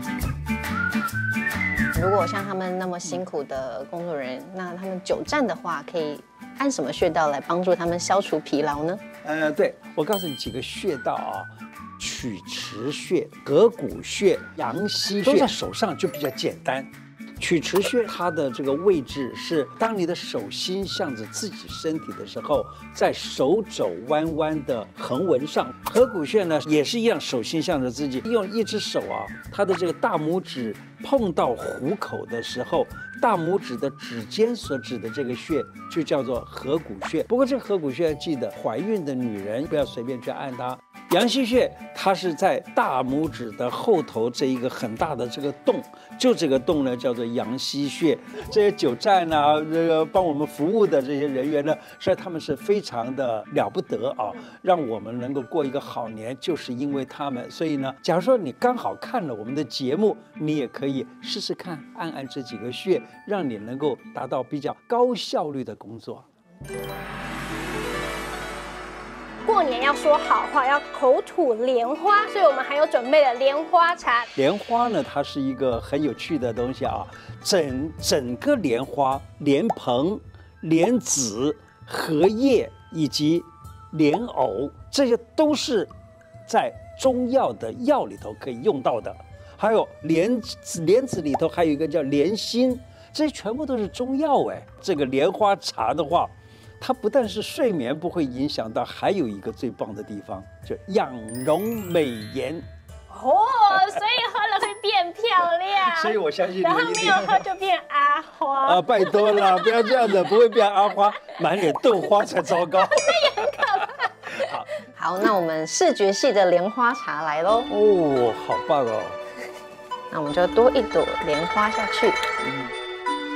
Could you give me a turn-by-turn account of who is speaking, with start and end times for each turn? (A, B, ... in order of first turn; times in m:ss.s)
0:02.0-0:09.0 A
0:09.2-1:06.2 B
1:09.4-1:14.3 C
1:14.4-1:25.9 B
1:26.5-1:42.6 B
1:43.1-1:50.2 C
1:45.8-1:47.4 B
1:48.6-1:53.7 B
1:52.8-1:54.5 C
1:54.4-1:54.7 B
1:55.0-1:57.7 A
1:57.7-1:59.2 B
2:00.1-2:02.2 A
2:02.4-2:02.7 B